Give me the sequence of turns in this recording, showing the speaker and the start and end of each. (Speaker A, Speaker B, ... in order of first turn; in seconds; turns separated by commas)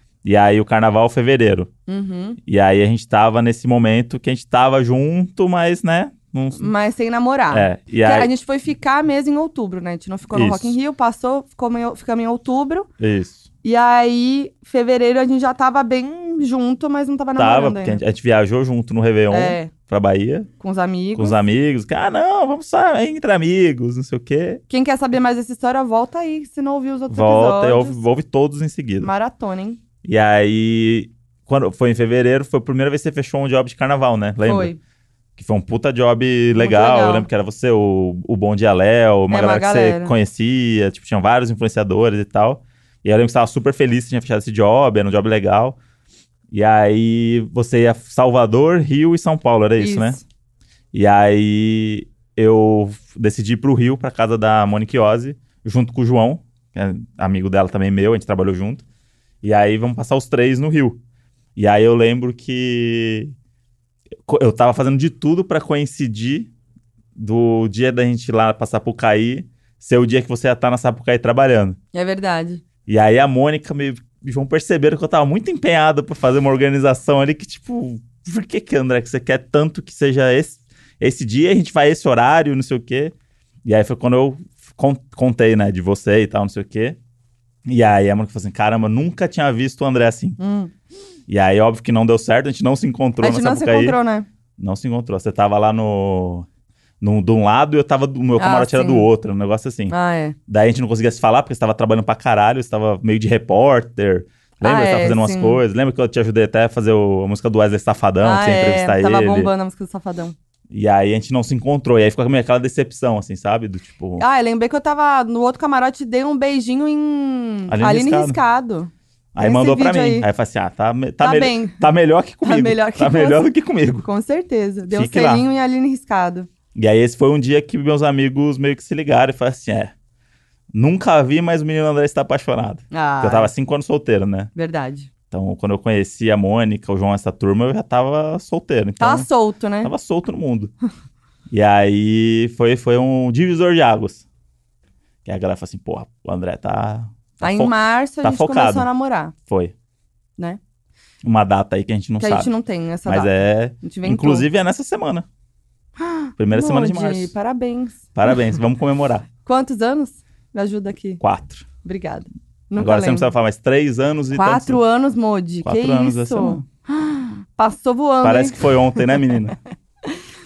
Speaker A: 0.2-1.7, Speaker B: 1.9-2.4, Speaker A: 2.5-6.7, Speaker B: 6.6-12.9, Speaker A: 7.5-8.3, Speaker A: 10.3-10.8, Speaker A: 13.0-13.5, Speaker B: 13.6-18.0, Speaker A: 17.4-20.5, Speaker B: 19.3-19.7, Speaker B: 20.6-21.4, Speaker A: 21.2-24.6, Speaker B: 24.7-28.0, Speaker A: 27.1-29.1, Speaker B: 29.0-29.8, Speaker A: 30.0-34.7, Speaker B: 34.4-34.8, Speaker A: 35.4-45.8, Speaker B: 36.5-37.3, Speaker B: 39.3-40.1, Speaker A: 46.5-50.2, Speaker B: 49.8-50.2, Speaker A: 50.9-58.9, Speaker A: 59.4-61.0, Speaker A: 61.6-63.3, Speaker A: 64.3-66.5, Speaker A: 67.2-71.8, Speaker B: 71.9-72.6, Speaker A: 72.9-87.0, Speaker A: 87.7-90.4, Speaker B: 90.4-90.7, Speaker A: 91.3-94.0, Speaker B: 93.2-94.3, Speaker A: 94.6-96.5, Speaker A: 97.0-99.9, Speaker B: 98.4-99.1, Speaker B: 99.9-100.4, Speaker A: 100.5-109.5, Speaker B: 104.6-105.6, Speaker B: 108.2-110.3, Speaker A: 110.7-114.2, Speaker B: 114.2-120.3, Speaker A: 117.7-118.4, Speaker A: 119.3-124.1, Speaker B: 121.2-121.8, Speaker B: 122.4-123.5, Speaker B: 124.0-126.5, Speaker A: 124.9-125.5, Speaker A: 126.8-129.9, Speaker A: 130.7-134.5, Speaker B: 132.9-133.5, Speaker B: 134.6-135.1, Speaker A: 135.3-139.3, Speaker B: 139.0-139.9, Speaker A: 139.8-140.7, Speaker A: 141.5-144.2, Speaker A: 145.2-148.9, Speaker B: 147.4-149.3, Speaker A: 149.4-149.7, Speaker A: 151.2-152.5, Speaker B: 152.2-153.3, Speaker A: 153.1-155.3, Speaker B: 153.8-154.5, Speaker B: 156.0-158.1, Speaker A: 156.4-157.3, Speaker A: 158.1-159.3, Speaker B: 159.4-161.2, Speaker A: 161.2-161.7, Speaker B: 161.8-163.3, Speaker A: 162.8-164.8, Speaker B: 164.3-169.2, Speaker A: 165.6-166.6, Speaker A: 168.2-169.6